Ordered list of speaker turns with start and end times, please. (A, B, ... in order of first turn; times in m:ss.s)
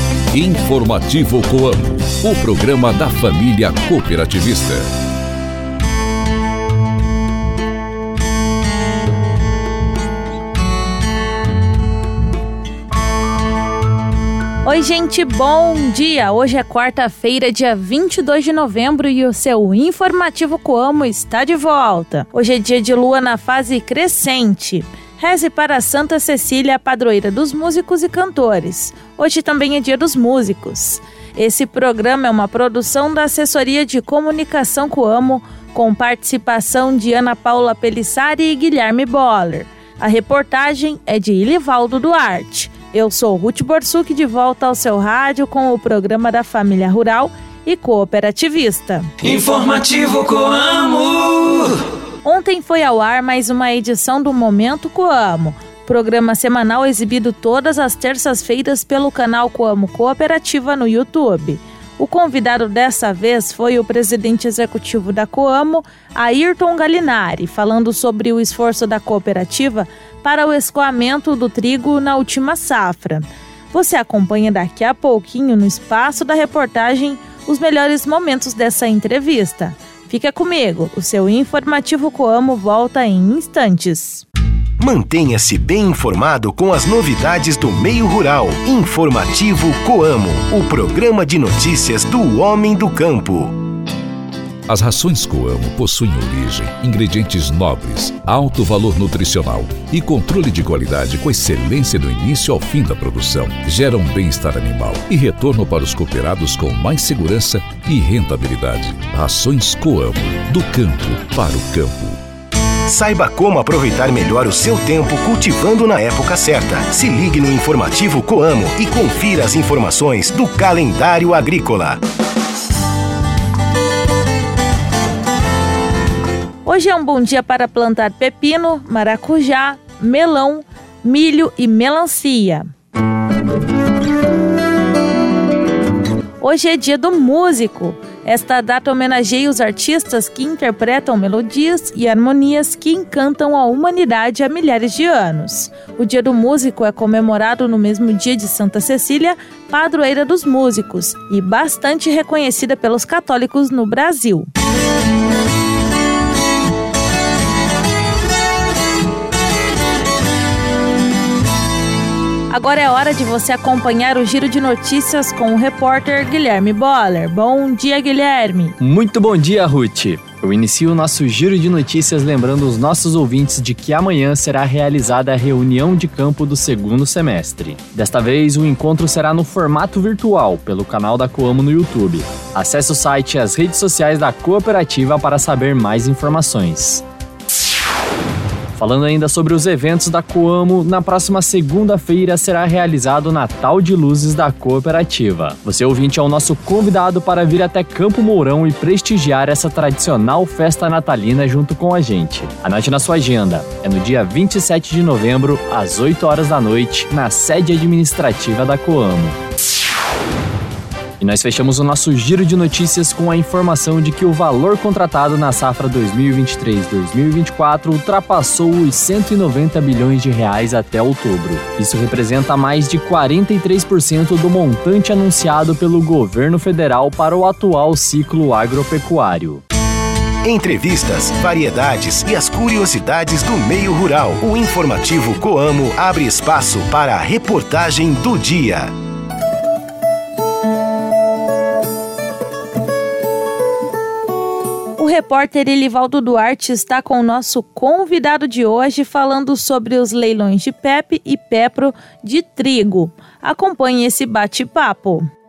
0:00.3-0:04.9 A
0:14.6-0:49.1 B
0:49.2-0:51.7 C
0:52.2-1:24.2 B
1:24.8-1:33.6 D
1:34.7-1:52.2 A
1:52.9-2:02.0 D
2:06.6-2:12.7 B
2:16.4-2:34.5 B
2:42.5-2:48.8 B
2:48.8-3:07.0 E
3:08.8-3:29.4 E
3:31.2-3:49.6 E
3:50.4-3:58.9 D
4:05.0-4:15.3 B